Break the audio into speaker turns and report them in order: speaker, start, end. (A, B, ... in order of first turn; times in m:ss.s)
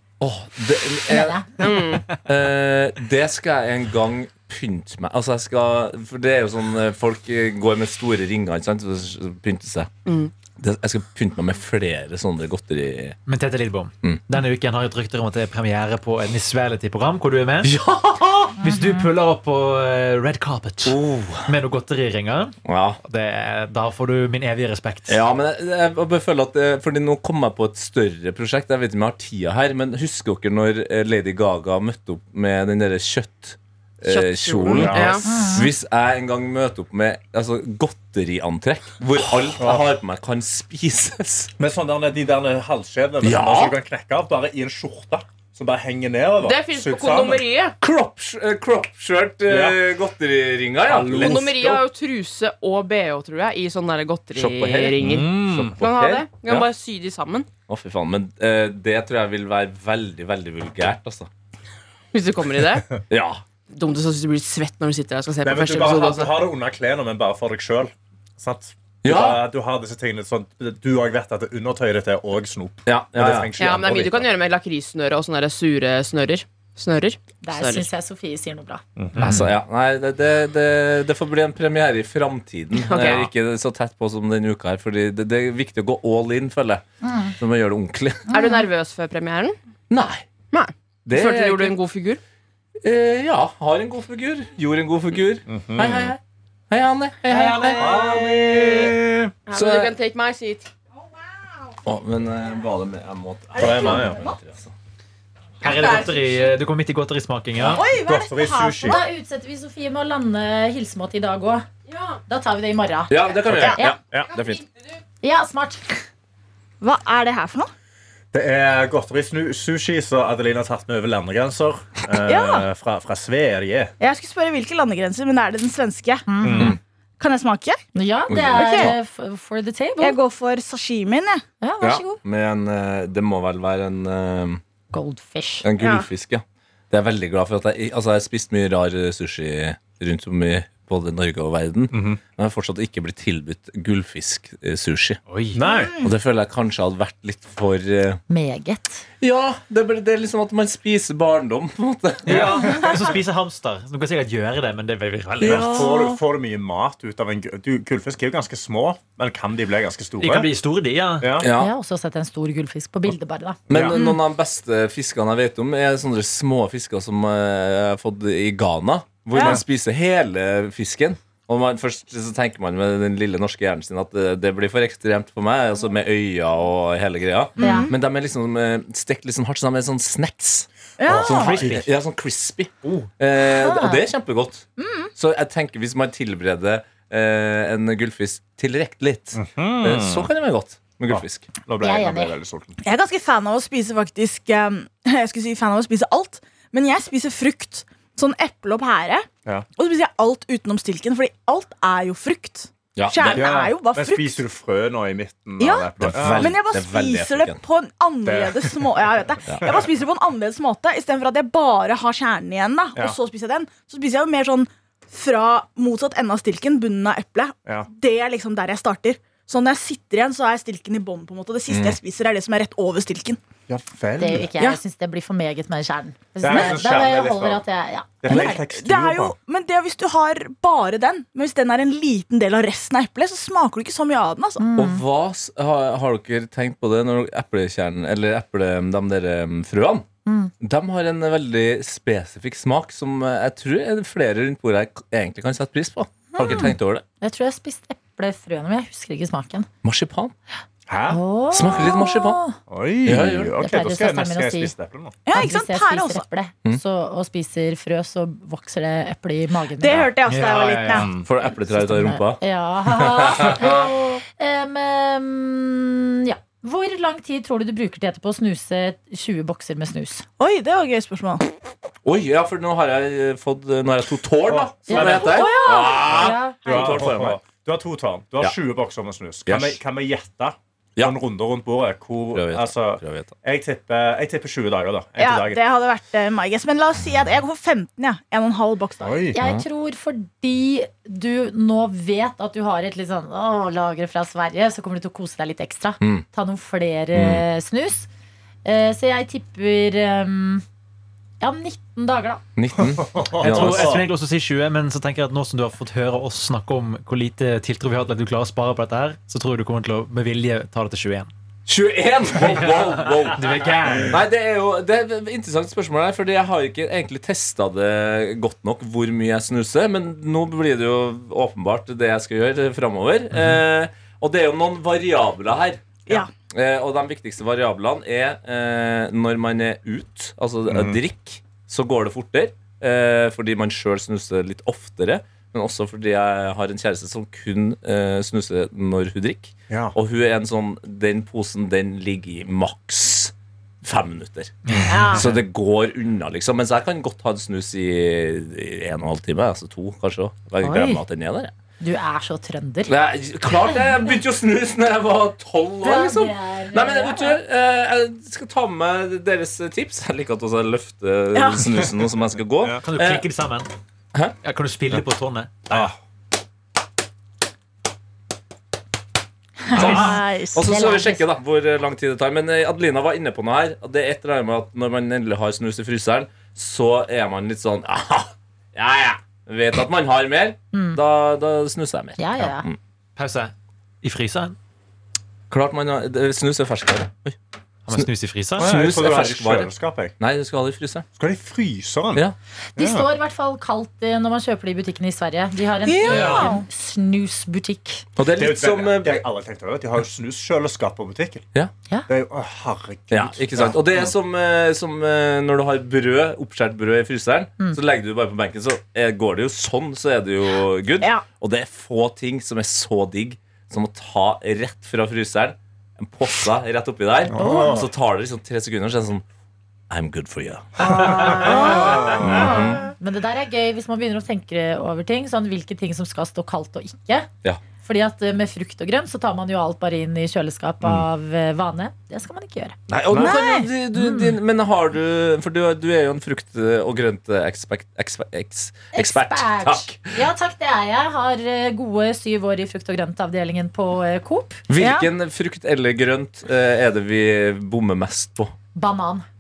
0:00.2-0:09.9 A
0:01.1-0:01.6 B
0:01.6-0:02.1 C
0:10.1-0:10.3 C
0:10.6-0:13.2 A
0:13.3-0:17.7 D
0:17.6-0:18.6 A
0:18.6-0:25.3 D
0:18.6-0:19.1 B
0:20.8-0:21.5 A
0:22.6-0:23.0 A
0:25.1-0:41.5 A
0:34.0-0:35.3 C
0:34.7-0:35.2 E
0:35.2-0:35.7 B
0:39.6-0:39.9 E
0:41.6-0:47.4 E
0:43.2-0:43.8 A
0:46.4-0:47.8 C
0:47.8-0:51.8 A
0:49.5-0:49.8 E
0:50.8-0:51.6 E
0:51.1-0:57.5 C
0:54.4-0:56.7 A
0:55.0-0:55.8 E
0:57.7-1:01.3 A
1:02.1-1:03.0 C
1:03.1-1:03.4 A
1:03.7-1:06.4 C
1:05.4-1:14.3 E
1:09.0-1:09.4 A
1:12.9-1:13.5 A
1:13.6-1:17.9 C
1:17.4-1:18.8 B
1:19.0-1:19.4 E
1:19.2-1:19.5 D
1:19.2-1:26.8 A
1:22.7-1:23.3 C
1:27.0-1:27.4 B
1:27.4-1:28.3 A
1:28.3-1:28.6 B
1:28.3-1:29.6 C
1:29.9-1:30.3 A
1:30.5-1:32.2 C
1:31.1-1:31.8 A
1:32.8-1:39.0 A
1:35.5-1:36.2 E
1:37.3-1:38.0 D
1:37.8-1:39.3 E
1:39.5-1:40.7 C
1:39.5-1:39.9 A
1:41.8-1:44.7 A
1:43.6-1:44.2 E
1:43.6-1:44.2 F
1:45.6-1:47.8 D
1:45.6-1:46.5 C
1:47.6-1:49.0 F
1:47.8-1:49.0 E
1:48.8-1:51.7 B
1:51.9-1:52.2 C
1:52.3-1:54.0 B
1:53.1-1:54.6 A
1:53.5-1:54.3 E
1:53.5-1:53.8 F
1:55.2-1:56.0 B
1:56.8-1:57.7 F
1:58.3-2:03.9 E
2:02.3-2:02.7 F
2:04.0-2:06.3 F
2:06.3-2:06.8 B
2:06.4-2:06.8 E
2:07.2-2:07.8 F
2:07.9-2:10.2 B
2:08.3-2:09.0 A
2:08.5-2:09.0 F
2:10.0-2:11.4 F
2:11.6-2:12.2 B
2:11.8-2:14.6 A
2:14.9-2:15.7 B
2:15.6-2:25.2 A
2:15.8-2:16.1 F
2:21.9-2:22.2 E
2:25.3-2:25.6 D
2:25.5-2:25.9 E
2:25.6-2:26.1 F
2:26.0-2:28.2 A
2:28.3-2:29.0 B
2:29.2-2:32.9 A
2:32.2-2:35.9 D
2:35.4-2:36.1 A
2:35.4-2:40.5 E
2:40.2-2:41.4 D
2:41.2-2:41.5 E
2:41.4-2:41.7 A
2:41.5-2:43.6 B
2:43.7-2:44.0 E
2:43.7-3:11.5 A
2:49.3-2:49.6 F
2:49.4-2:49.6 E
2:57.6-2:57.9 F
2:57.6-2:57.9 B
3:01.0-3:01.6 F
3:01.1-3:01.8 E
3:01.2-3:01.9 D
3:03.5-3:04.1 B
3:04.8-3:05.1 F
3:09.3-3:10.3 E
3:11.1-3:12.8 E
3:11.8-3:12.4 B
3:12.8-3:24.4 F
3:23.0-3:23.5 A
3:23.3-3:26.6 E
3:25.6-3:43.4 F
3:26.0-3:27.6 A
3:28.3-3:29.8 E
3:41.7-3:42.0 A
3:43.7-3:44.5 E
3:44.2-3:48.6 B
3:46.4-3:47.6 E
3:48.2-3:49.4 E
3:48.3-3:54.7 F
3:54.6-3:55.0 B
3:54.8-4:00.1 A
4:00.3-4:00.5 B
4:00.6-4:07.0 A
4:06.4-4:09.7 B
4:09.8-4:10.3 A
4:10.9-4:11.2 E
4:11.1-4:12.6 B
4:11.5-4:12.4 A
4:12.7-4:15.2 E
4:13.1-4:13.5 A
4:13.6-4:14.7 B
4:15.2-4:16.2 F
4:15.3-4:20.1 B
4:19.8-4:21.1 F
4:20.3-4:21.1 D
4:20.9-4:21.3 E
4:21.2-4:23.9 A
4:21.7-4:30.2 B
4:30.4-4:31.4 F
4:32.0-4:37.4 A
4:34.4-4:35.5 E
4:34.9-4:37.0 B
4:35.1-4:36.0 F
4:36.6-4:45.6 E
4:39.5-4:39.8 A
4:42.3-4:43.3 A
4:45.2-4:49.2 F
4:49.0-4:49.4 E
4:49.3-4:58.1 B
4:49.4-4:49.6 A
4:56.0-4:56.2 A
4:57.2-4:57.4 A
4:58.6-5:00.6 B
5:01.4-5:02.4 B
5:02.6-5:04.0 A
5:02.8-5:04.1 E
5:03.4-5:11.3 D
5:11.7-5:44.6 A
5:12.4-5:14.2 D
5:23.3-5:23.6 D
5:30.7-5:31.0 E
5:39.7-5:40.0 E
5:44.7-5:45.4 D
5:44.9-5:45.3 F
5:45.1-5:51.5 A
5:50.6-5:51.0 B
5:51.8-5:52.9 B
5:52.9-6:03.3 A
5:53.7-5:54.1 B
5:55.8-5:57.4 B
6:01.3-6:01.7 F
6:02.8-6:03.7 D
6:04.4-6:05.9 D
6:05.7-6:06.0 E
6:09.7-6:11.2 B
6:09.7-6:22.8 A
6:09.8-6:10.7 F
6:09.8-6:10.1 D
6:20.7-6:21.0 B
6:22.2-6:22.7 B
6:23.2-6:24.6 D
6:25.5-6:27.4 A
6:27.9-6:28.7 D
6:27.9-6:31.1 A
6:28.6-6:30.1 E
6:31.2-6:32.2 E
6:32.8-6:38.0 B
6:32.8-6:33.1 E
6:35.8-6:36.6 F
6:38.2-6:39.2 A
6:38.3-6:41.5 E
6:42.1-6:44.1 E
6:43.1-6:59.2 A
6:57.3-6:57.9 E
6:57.4-6:57.8 B
6:59.9-7:02.9 A
7:00.8-7:07.3 B
7:00.9-7:02.7 E
7:01.4-7:02.1 F
7:07.8-7:12.8 B
7:12.9-7:20.2 A
7:13.1-7:13.4 E
7:13.2-7:13.7 F
7:13.9-7:14.4 B
7:18.9-7:24.6 B
7:24.7-7:28.5 A
7:24.8-7:25.1 F
7:28.8-7:29.3 B